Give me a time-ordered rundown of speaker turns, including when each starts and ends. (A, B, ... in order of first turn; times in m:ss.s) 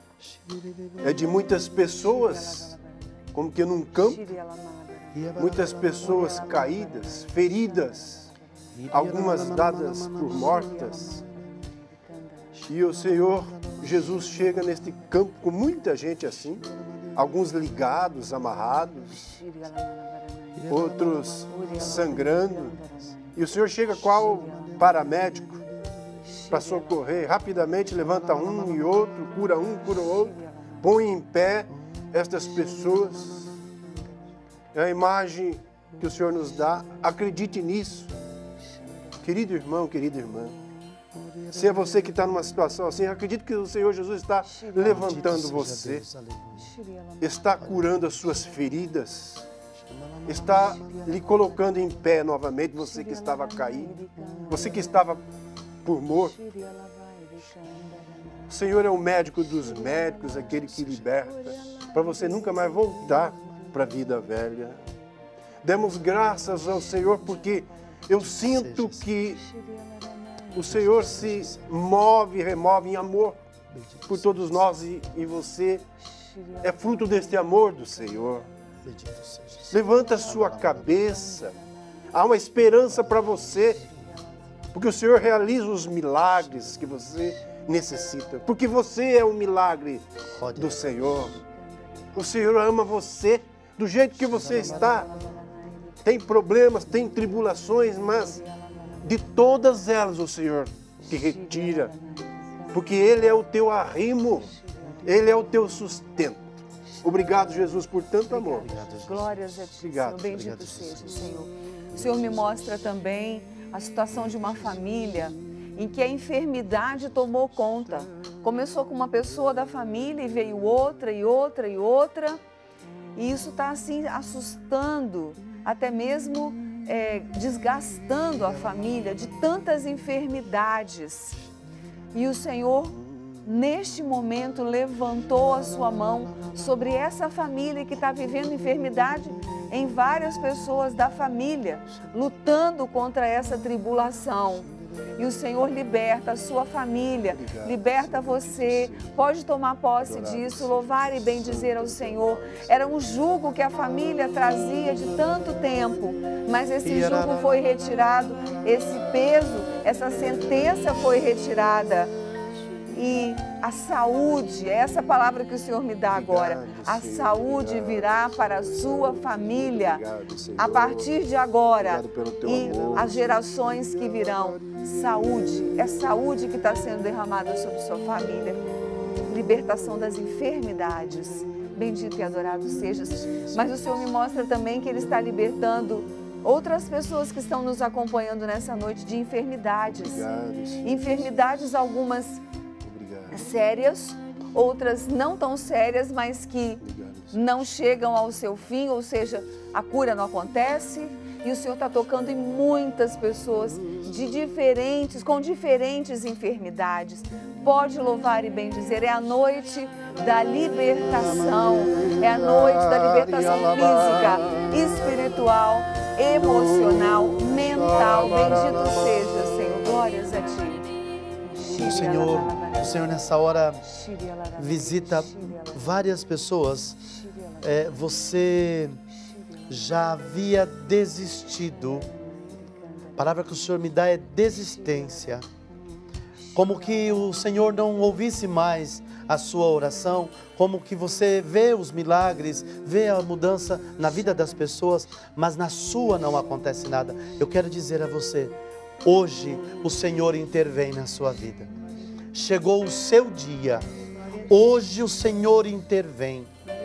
0:00.2-0:01.4 A
0:01.0-0:02.7 B
0:02.0-0:03.3 C
0:03.3-0:04.2 B
0:03.9-0:08.7 C
0:05.1-0:06.2 A
0:05.4-0:08.3 B
0:08.7-0:11.6 A
0:08.9-0:11.2 B
0:10.4-0:13.2 C
0:12.6-0:14.0 A
0:12.7-0:19.2 B
0:14.0-0:15.1 C
0:19.1-0:20.7 C
0:20.6-0:22.3 A
0:20.7-0:22.7 B
0:21.5-0:23.4 C
0:23.3-0:25.6 B
0:23.9-0:26.2 A
0:24.0-0:25.0 C
0:26.2-0:27.3 C
0:26.5-0:33.5 B
0:27.9-0:29.1 A
0:29.2-0:30.8 C
0:32.8-0:34.1 C
0:34.7-0:38.1 B
0:38.4-0:39.3 C
0:39.2-0:40.6 B
0:41.1-0:42.3 A
0:41.5-0:46.0 B
0:44.4-0:45.3 C
0:44.8-0:46.7 A
0:46.5-0:47.5 C
0:47.2-0:49.5 B
0:47.6-0:48.0 A
0:48.1-0:48.9 C
0:49.8-0:51.0 A
0:50.3-0:54.0 B
0:50.4-0:52.1 C
0:52.7-0:55.3 C
0:54.5-0:55.2 B
0:55.8-0:56.3 B
0:56.0-0:58.6 C
0:58.5-1:04.8 B
0:59.3-1:00.7 C
1:00.7-1:01.1 A
1:01.2-1:04.2 C
1:05.6-1:09.4 B
1:05.9-1:08.3 C
1:08.2-1:09.1 A
1:09.4-1:10.7 C
1:10.5-1:13.4 B
1:10.6-1:11.7 A
1:13.7-1:14.8 A
1:14.1-1:15.8 B
1:16.0-1:18.7 C
1:16.6-1:18.4 B
1:18.8-1:21.1 A
1:19.7-1:25.1 C
1:19.7-1:21.6 B
1:22.1-1:23.8 B
1:22.9-1:23.4 A
1:24.7-1:31.4 B
1:26.4-1:26.9 A
1:27.4-1:28.1 C
1:30.3-1:31.2 A
1:31.4-1:32.2 C
1:32.1-1:35.1 B
1:34.2-1:35.1 A
1:34.4-1:36.2 C
1:36.0-1:38.4 B
1:37.8-1:39.4 C
1:39.0-1:41.9 B
1:41.1-1:43.4 C
1:42.7-1:44.5 B
1:44.4-1:45.6 C
1:45.0-1:48.7 B
1:46.9-2:02.4 C
1:48.6-1:51.3 A
1:49.7-1:50.3 B
1:51.9-1:52.7 A
2:03.1-2:11.4 C
2:08.4-2:08.8 A
2:12.1-2:42.1 C
2:13.0-2:13.4 B
2:27.2-2:29.2 B
2:30.0-2:33.0 B
2:36.8-2:37.5 A
2:42.9-2:50.0 C
2:46.1-2:51.1 B
2:50.6-2:58.6 C
2:51.8-2:53.4 B
2:59.2-3:10.2 C
3:03.1-3:03.9 A
3:09.8-3:11.3 B
3:10.8-3:12.4 C
3:12.8-3:13.5 B
3:13.3-3:40.8 C
3:16.8-3:17.4 B
3:31.2-3:35.3 B
3:36.4-3:39.7 B
3:41.4-3:43.2 C
3:41.7-3:43.8 A
3:43.8-3:46.0 C
3:44.6-3:47.0 A
3:47.0-3:48.0 C
3:47.6-3:49.0 A
3:49.2-3:49.8 C
3:49.7-3:52.1 A
3:52.0-3:53.4 C
3:53.2-3:55.4 A
3:54.5-3:55.4 C
3:56.4-3:57.4 C
3:56.5-4:11.7 A
4:12.3-4:13.8 A
4:14.4-4:16.5 A